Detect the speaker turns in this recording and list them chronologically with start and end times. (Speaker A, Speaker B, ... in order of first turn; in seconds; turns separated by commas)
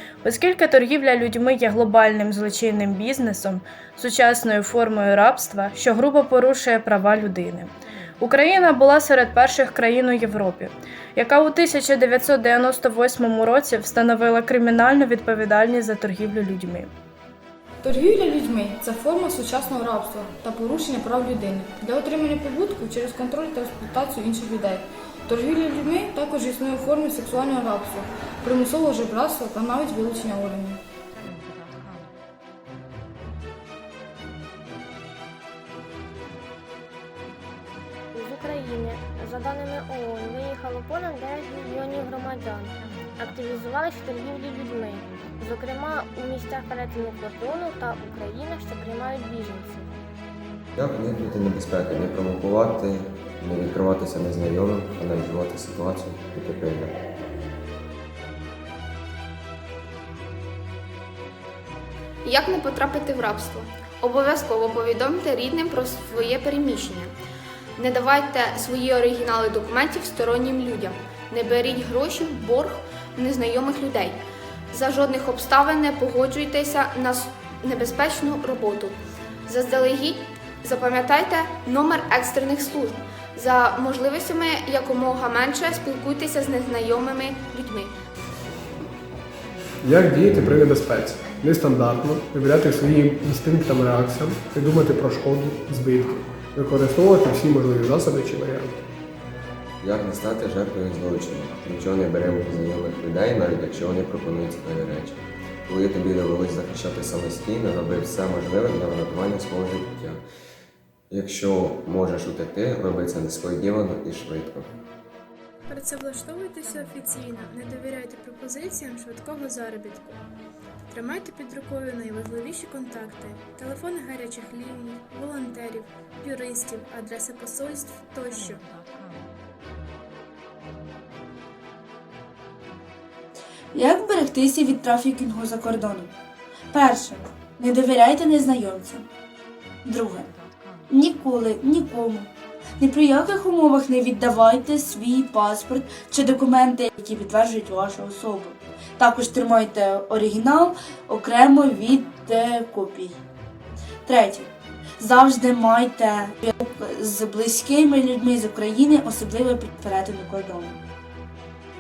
Speaker A: 0.2-16.9, Speaker B: 17.8-30.8, Speaker C: 38.1-49.9, Speaker D: 50.8-56.9, Speaker E: 62.2-67.1, Speaker E: 67.8-74.2, Speaker E: 74.7-87.9, Speaker F: 89.8-98.8, Speaker D: 99.8-110.2, Speaker D: 111.1-114.7, Speaker G: 115.7-120.2, Speaker G: 120.9-128.7, Speaker H: 133.7-136.1, Speaker H: 136.7-139.1, Speaker H: 139.8-140.3, Speaker H: 140.9-153.2, Speaker H: 154.1-154.5, Speaker H: 155.0-160.8